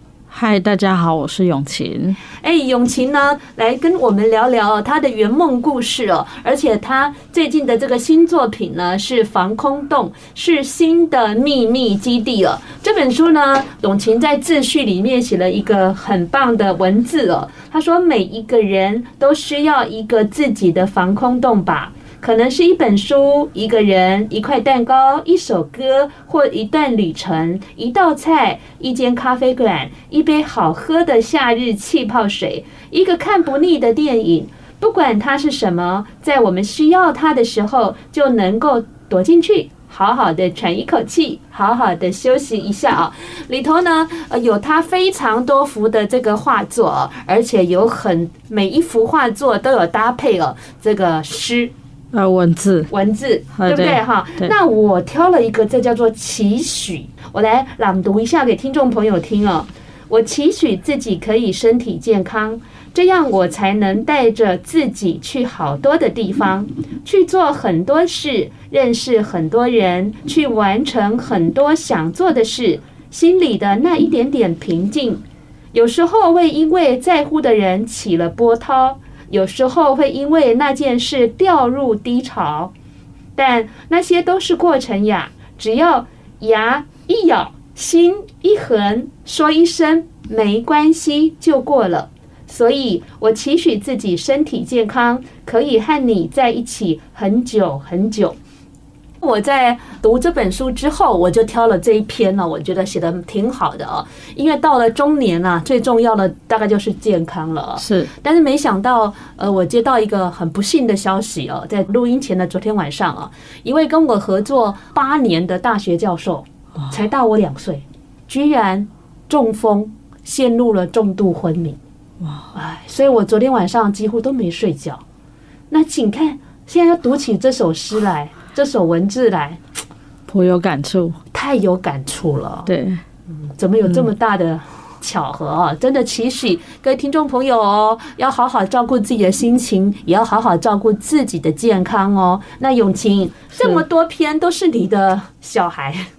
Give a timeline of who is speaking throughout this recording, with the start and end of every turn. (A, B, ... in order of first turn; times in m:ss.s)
0:00.3-0:02.2 A
0:02.4-0:51.7 B
0:52.1-0:52.9 A
0:52.9-1:15.2 B
0:53.6-0:54.5 A
1:15.7-1:22.7 B
1:23.4-1:38.4 B
1:39.2-2:01.8 B
1:47.8-1:48.1 A
2:02.2-2:02.5 A
2:02.5-2:05.0 B
2:05.7-2:09.6 B
2:10.3-2:11.2 A
2:11.3-2:12.7 B
2:12.7-2:13.0 A
2:13.4-2:26.1 B
2:13.8-2:14.1 A
2:23.6-2:23.8 A